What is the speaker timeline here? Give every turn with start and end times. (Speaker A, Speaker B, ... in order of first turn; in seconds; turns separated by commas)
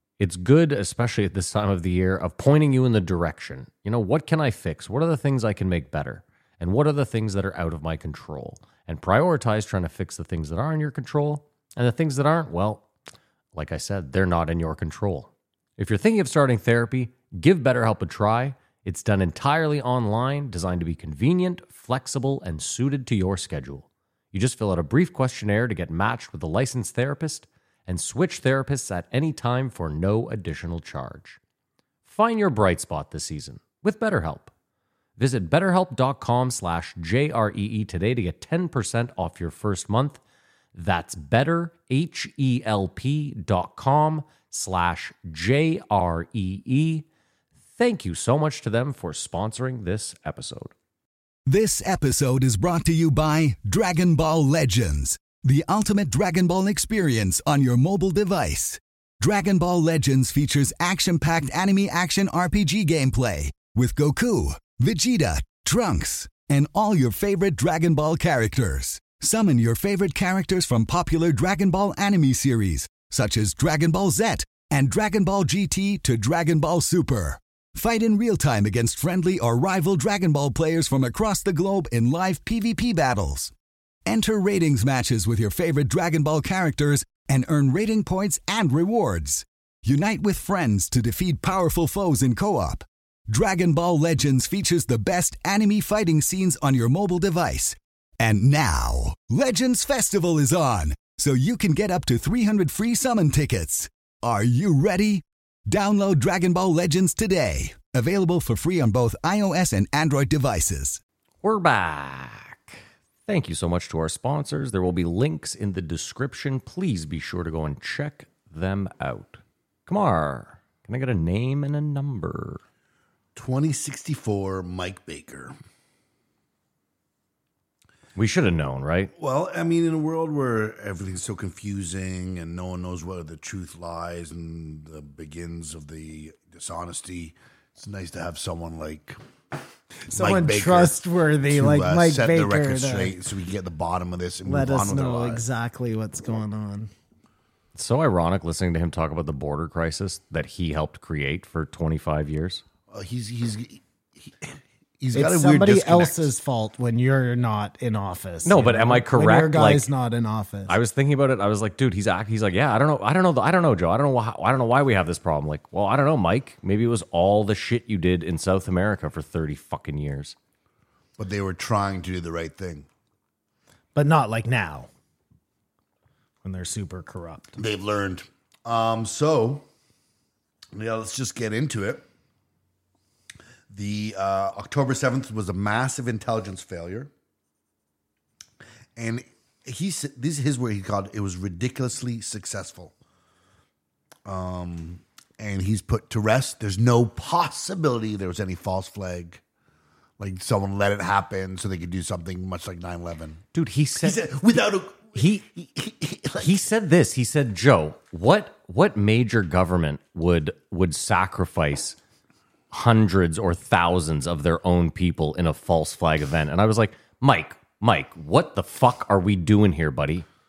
Speaker A: 0.2-12.8, Speaker A: 13.5-31.4, Speaker A: 32.0-34.5, Speaker A: 35.2-40.2, Speaker A: 40.7-47.0, Speaker A: 47.8-50.7, Speaker B: 51.5-83.5, Speaker B: 84.0-111.0, Speaker A: 111.4-122.6, Speaker C: 123.3-125.5, Speaker A: 128.2-129.1, Speaker C: 129.1-139.2, Speaker D: 140.1-143.1, Speaker C: 140.1-145.4, Speaker D: 144.4-146.9, Speaker A: 147.7-152.6, Speaker C: 152.9-156.3, Speaker D: 155.1-160.7, Speaker A: 158.4-159.9, Speaker A: 160.7-170.3, Speaker C: 171.2-172.9, Speaker D: 173.9-174.9, Speaker D: 176.4-177.6, Speaker C: 177.6-179.7, Speaker C: 180.7-182.1, Speaker C: 183.7-187.1, Speaker C: 188.9-192.9, Speaker C: 194.2-199.4, Speaker C: 200.2-203.4, Speaker A: 203.5-204.4, Speaker C: 204.0-206.5, Speaker A: 205.1-205.4, Speaker A: 206.4-212.0, Speaker A: 212.7-220.2